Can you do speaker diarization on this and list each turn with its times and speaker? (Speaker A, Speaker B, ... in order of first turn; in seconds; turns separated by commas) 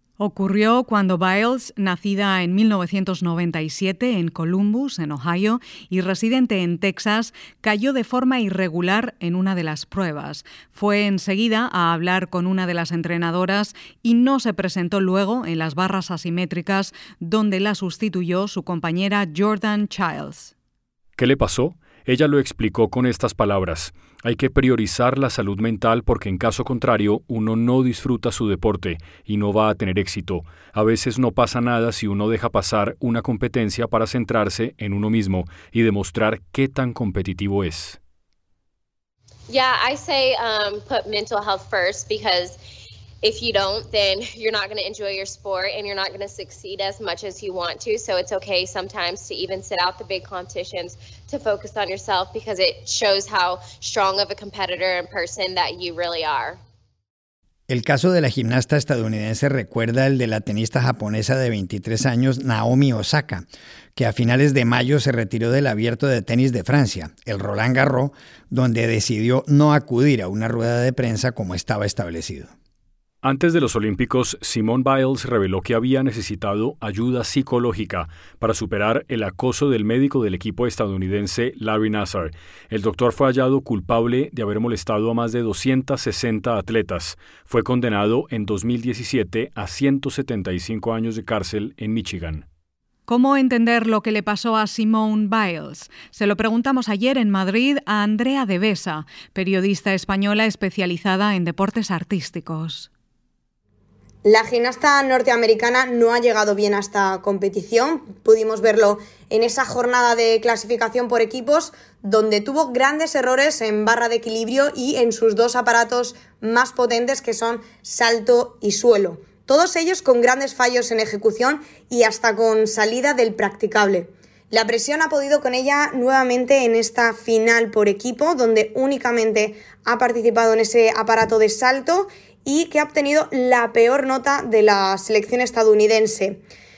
Speaker A: 0.2-20.5, Speaker B: 21.2-38.0, Speaker C: 39.5-42.6, Speaker C: 43.2-56.6, Speaker D: 57.7-72.5, Speaker B: 73.2-92.5, Speaker A: 93.1-102.9, Speaker E: 104.2-136.4